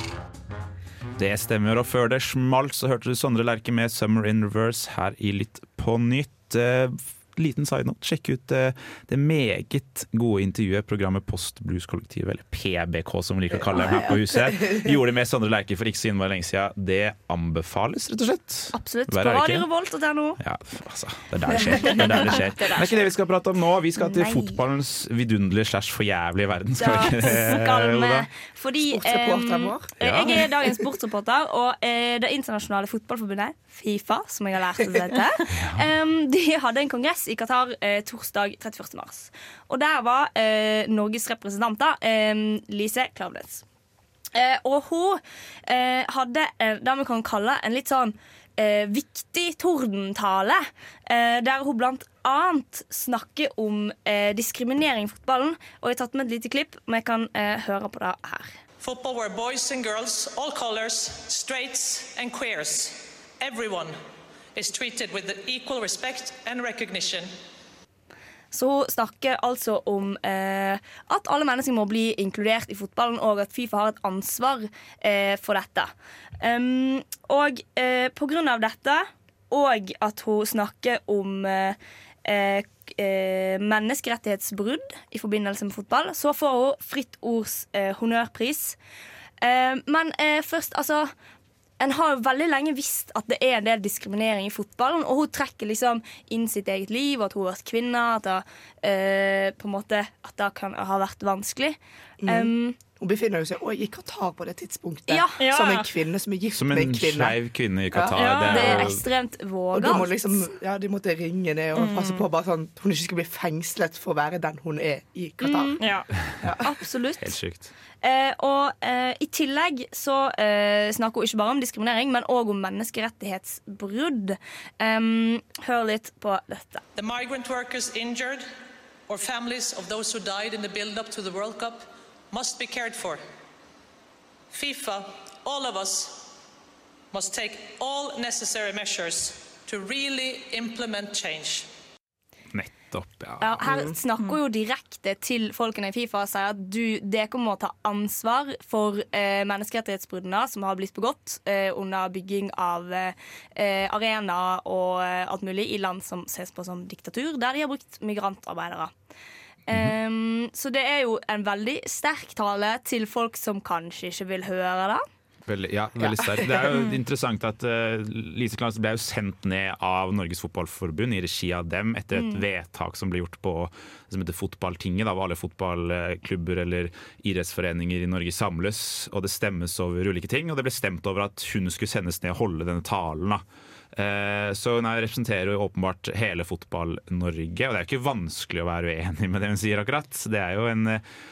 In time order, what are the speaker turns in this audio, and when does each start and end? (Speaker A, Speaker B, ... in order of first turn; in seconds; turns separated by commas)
Speaker A: 1.2-19.7, Speaker B: 13.7-14.8, Speaker C: 18.7-20.4, Speaker A: 20.4-28.3, Speaker C: 21.8-23.0, Speaker C: 24.0-24.6, Speaker C: 26.8-43.6, Speaker B: 28.9-30.2, Speaker A: 30.0-30.4, Speaker A: 35.5-35.9, Speaker C: 44.3-58.6, Speaker D: 58.8-64.0, Speaker D: 64.5-67.3, Speaker C: 68.5-88.8, Speaker C: 89.4-91.1, Speaker C: 91.8-102.8, Speaker B: 102.2-107.4, Speaker C: 105.1-105.4, Speaker E: 105.4-105.9, Speaker A: 106.5-109.0, Speaker E: 108.2-108.8, Speaker C: 108.5-110.5, Speaker B: 109.7-115.8, Speaker E: 111.8-112.2, Speaker C: 115.4-115.8, Speaker E: 115.8-116.1, Speaker B: 116.4-116.7, Speaker C: 116.6-117.3, Speaker A: 117.2-117.7, Speaker C: 118.0-126.8, Speaker D: 127.0-128.5, Speaker D: 129.1-133.2, Speaker D: 134.5-136.3, Speaker D: 137.1-141.7, Speaker A: 142.5-143.6, Speaker C: 143.4-158.9, Speaker C: 159.7-165.0, Speaker A: 165.5-191.0, Speaker B: 166.0-166.7, Speaker C: 172.2-172.4